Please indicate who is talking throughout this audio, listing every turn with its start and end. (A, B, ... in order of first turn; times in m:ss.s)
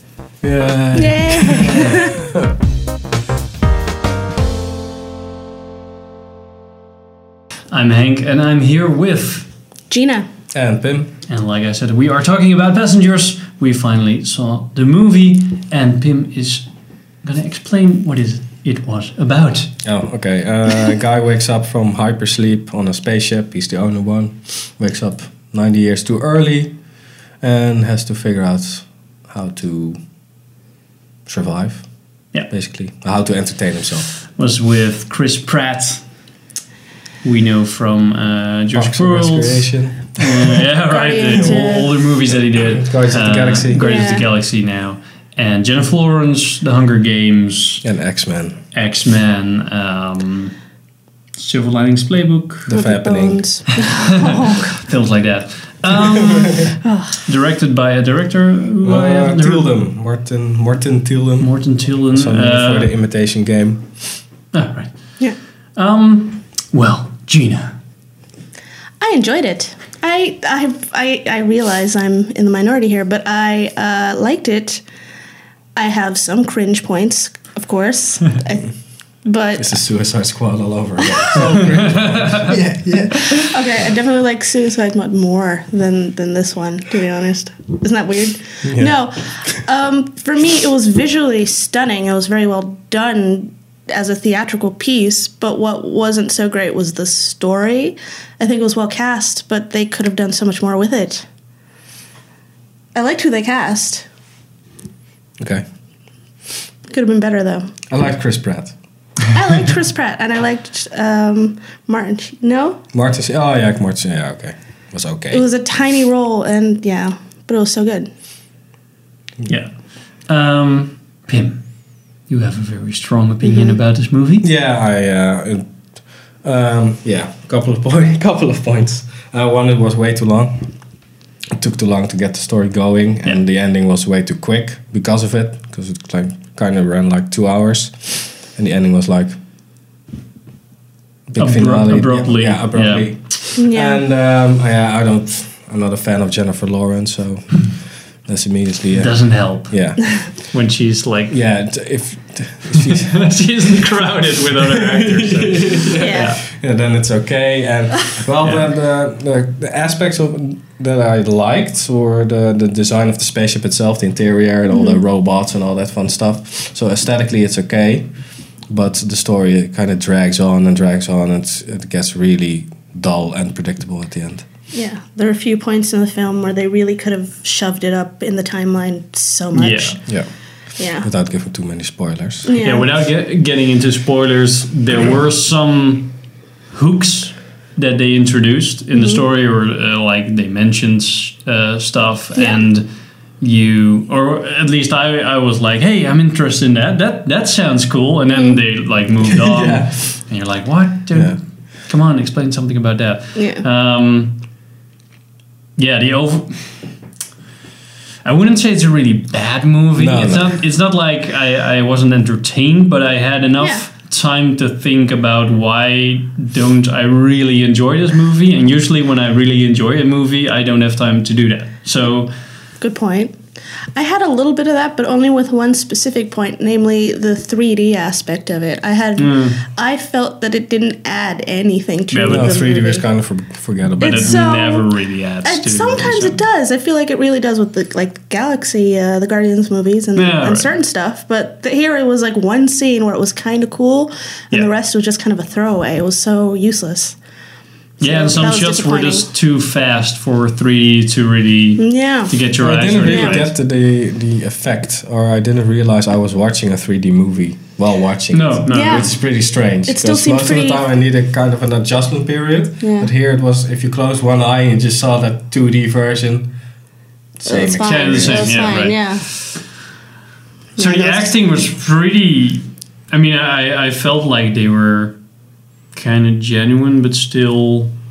0:00.4-0:02.5 A
0:00.9-0:02.2 B
0:01.6-0:02.1 C
0:07.7-0:09.5 C
0:09.9-0:10.3 B
0:10.5-0:11.1 A
0:11.3-0:16.7 C
0:17.2-0:19.7 C
0:19.8-0:26.8 A
0:27.4-0:30.0 A
0:31.3-0:31.9 A
0:32.5-0:34.0 A
0:34.3-0:36.0 C
0:37.2-0:47.8 C
0:38.7-0:40.6 A
0:40.9-0:41.9 B
0:42.7-0:44.2 A
0:43.8-0:44.2 B
0:47.8-0:48.6 A
0:48.7-0:50.6 C
0:51.4-0:52.7 C
0:52.7-0:53.4 A
0:52.7-0:54.8 B
0:53.8-0:59.7 C
0:56.1-0:56.6 A
0:56.8-0:57.2 B
0:58.8-1:01.5 A
1:01.4-1:02.9 C
1:02.1-1:03.9 A
1:04.5-1:04.9 C
1:05.8-1:07.7 C
1:09.0-1:14.8 B
1:15.8-1:18.7 B
1:19.2-1:19.7 B
1:19.6-1:23.6 A
1:21.0-1:21.6 B
1:21.9-1:22.5 C
1:23.3-1:41.2 B
1:28.6-1:29.0 A
1:43.0-1:44.1 B
1:45.4-1:45.6 A
1:46.9-1:47.7 B
1:47.9-1:48.8 A
1:49.3-1:52.8 B
1:52.9-1:55.4 A
1:55.3-1:58.1 B
1:59.4-1:59.7 C
2:00.3-2:01.6 C
2:02.3-2:04.5 C
2:03.4-2:03.8 B
2:04.4-2:05.7 A
2:06.4-2:10.7 A
2:11.6-2:19.4 A
2:21.3-2:27.8 A
2:21.4-2:23.1 C
2:23.6-2:24.0 B
2:28.3-2:30.0 A
2:29.0-2:31.4 C
2:31.3-2:33.3 A
2:32.8-2:36.4 C
2:34.7-2:48.1 A
2:36.0-2:36.4 B
2:44.7-2:45.0 B
2:48.7-2:54.5 A
2:54.7-3:00.0 B
2:59.5-3:00.0 C
3:00.8-3:01.1 B
3:01.0-3:02.5 A
3:02.4-3:02.9 B
3:02.6-3:06.2 C
3:06.7-3:12.9 C
3:09.0-3:09.2 B
3:12.4-3:12.6 B
3:13.4-3:24.4 C
3:18.3-3:18.6 B
3:19.3-3:20.2 A
3:23.4-3:23.7 B
3:25.8-3:26.8 C
3:28.2-3:42.3 C
3:30.0-3:30.6 A
3:33.6-3:33.9 B
3:42.8-3:43.4 B
3:44.0-3:53.0 B
3:49.2-3:49.6 C
3:52.1-3:52.6 C
3:52.3-3:54.4 A
3:54.0-3:54.9 B
3:54.0-3:56.4 C
3:55.4-4:07.2 B
4:00.2-4:00.7 C
4:08.0-4:09.3 B
4:08.0-4:13.5 C
4:11.8-4:12.4 B
4:12.6-4:26.5 A
4:13.1-4:13.5 B
4:18.3-4:19.2 C
4:18.7-4:19.2 B
4:19.9-4:20.8 B
4:22.8-4:23.1 B
4:27.4-4:28.7 A
4:27.4-4:29.3 B
4:27.8-4:29.5 C
4:30.8-4:31.3 B
4:30.8-4:35.2 C
4:35.9-4:37.9 C